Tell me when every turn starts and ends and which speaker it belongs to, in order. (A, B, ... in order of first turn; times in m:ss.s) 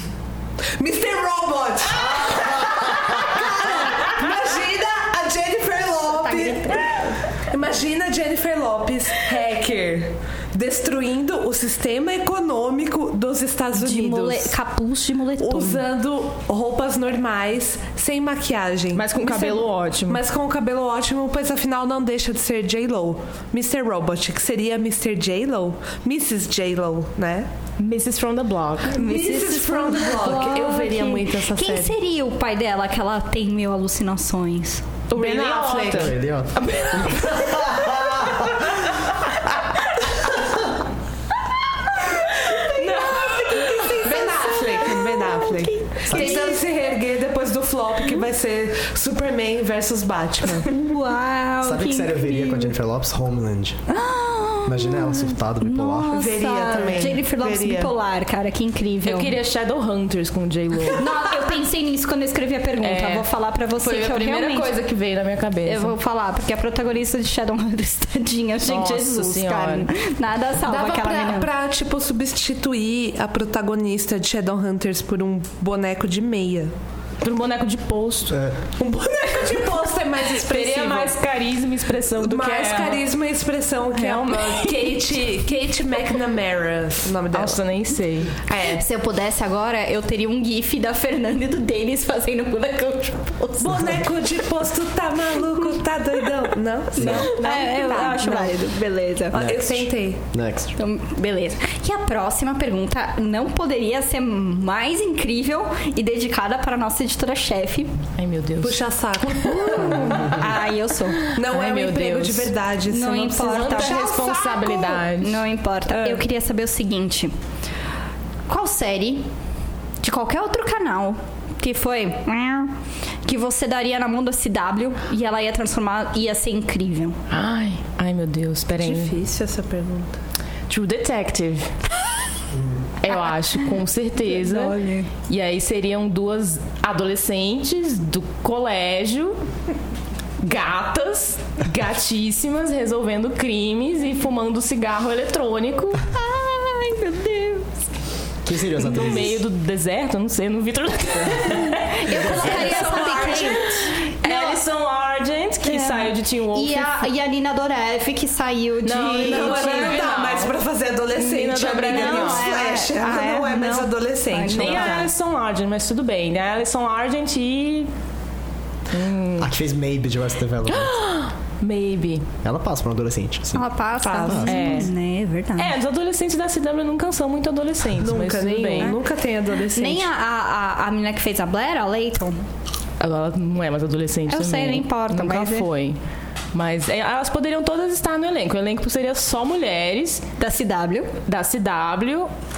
0:00.8-0:14.5 A
0:06.1-0:06.9 B
0:13.7-0:15.8 B
0:15.4-0:27.5 A
0:18.9-0:20.2 C
0:27.8-0:29.2 C
0:28.9-0:31.9 A
0:29.0-0:34.9 B
0:30.2-0:30.6 C
0:35.1-0:37.8 C
0:35.1-0:36.1 A
0:35.9-0:38.8 D
0:42.3-0:44.0 C
0:42.4-0:46.6 B
0:43.8-0:50.7 A
0:46.0-0:46.4 D
0:50.6-0:52.8 B
0:51.6-0:53.8 D
0:53.9-0:59.4 B
0:54.6-0:56.1 D
0:56.1-0:57.9 A
0:59.0-1:01.0 C
1:00.9-1:04.7 B
1:02.8-1:03.3 C
1:03.8-1:06.0 C
1:05.6-1:11.5 B
1:08.6-1:09.9 C
1:10.6-1:16.7 A
1:17.2-1:18.4 C
1:18.3-1:18.6 D
1:18.8-1:21.1 A
1:20.2-1:23.1 C
1:22.1-1:27.6 A
1:23.9-1:25.3 C
1:27.3-1:28.4 C
1:28.5-1:28.8 A
1:28.7-1:33.9 B
1:33.6-1:38.5 A
1:37.0-1:37.3 D
1:37.0-1:39.5 B
1:37.0-1:37.7 C
1:39.3-1:40.2 A
1:39.3-1:40.8 D
1:40.8-1:47.9 B
1:48.2-1:50.2 C
1:48.6-1:50.4 A
1:50.0-1:51.2 B
1:51.2-1:52.5 C
1:51.3-1:54.7 A
1:52.9-1:57.3 B
1:53.4-1:55.4 C
1:58.5-1:59.2 B
2:00.0-2:02.7 B
2:03.2-2:07.2 B
2:07.3-2:09.1 C
2:08.8-2:10.2 A
2:10.7-2:11.7 C
2:12.5-2:12.8 D
2:13.0-2:19.4 C
2:14.2-2:15.1 B
2:20.4-2:26.0 C
2:26.1-2:27.8 B
2:28.4-2:29.4 D
2:28.7-2:33.6 C
2:31.7-2:34.6 B
2:32.2-2:33.9 A
2:34.2-2:37.0 C
2:35.6-2:40.0 B
2:38.8-2:40.6 C
2:39.2-2:45.0 A
2:41.1-2:42.5 C
2:41.8-2:45.1 B
2:44.4-2:47.9 C
2:48.9-2:49.5 C
2:49.4-2:50.9 D
2:50.7-2:52.2 C
2:52.4-2:53.6 D
2:53.5-2:55.8 B
2:54.0-2:54.8 A
2:54.3-2:54.5 D
2:54.4-2:54.9 C
2:55.6-2:59.0 C
2:58.0-3:00.1 A
2:59.7-3:02.4 B
3:03.0-3:06.0 C
3:04.3-3:05.7 B
3:06.5-3:10.2 C
3:10.4-3:11.1 B
3:11.2-3:12.3 C